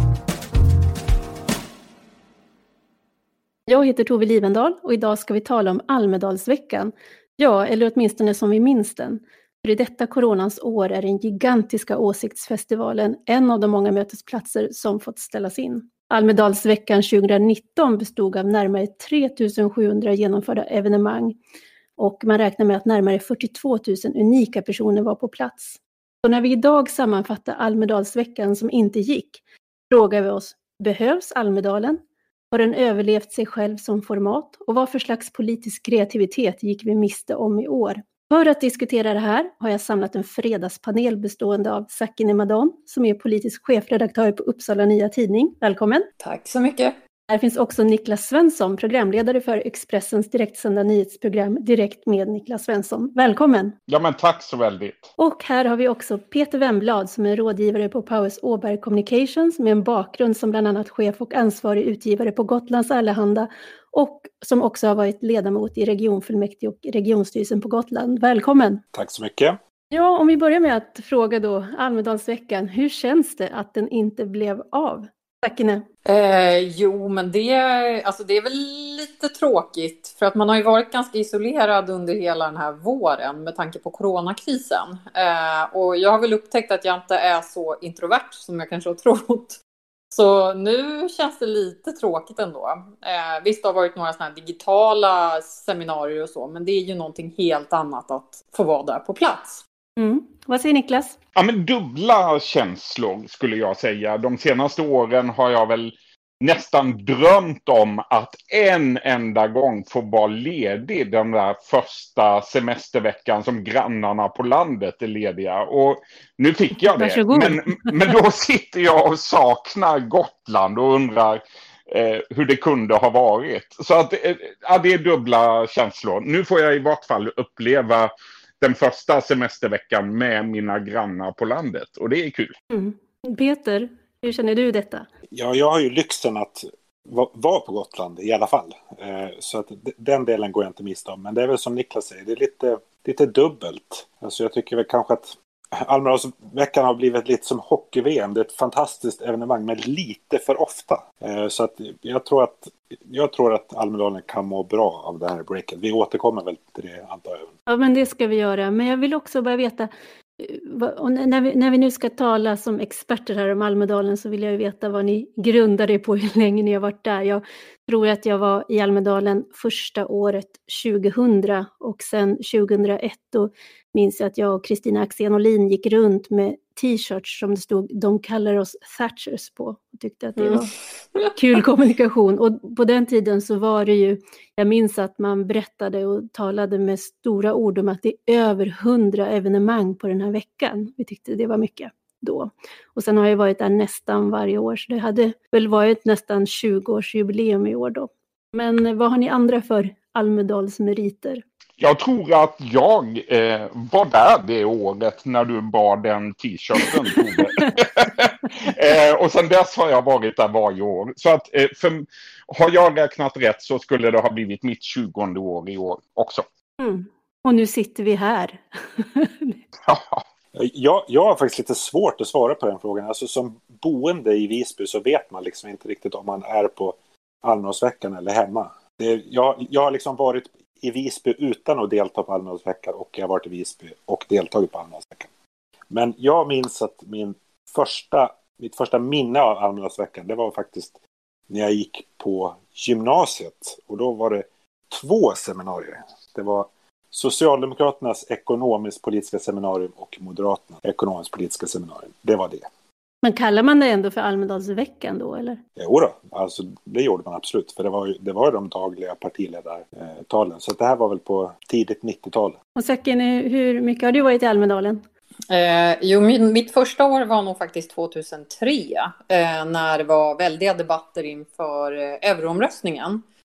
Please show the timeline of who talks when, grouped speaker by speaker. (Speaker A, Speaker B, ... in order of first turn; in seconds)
Speaker A: 3.7-21.4, 22.0-32.0, 32.5-46.1, 47.3-53.8, 55.2-68.8, 69.9-75.8, 100.0-101.2, 116.8-117.9, 132.7-135.1, 157.7-180.7, 181.3-201.4, 216.8-219.6, 253.2-255.6, 262.8-265.0
Speaker B: 46.2-47.0, 76.1-89.6, 90.1-99.6, 265.5-273.2
Speaker C: 53.9-55.1, 101.4-132.6, 201.8-216.4, 219.9-220.2
Speaker D: 68.9-69.6, 135.3-157.5, 220.5-235.3, 235.9-240.9, 241.5-252.7, 255.8-262.6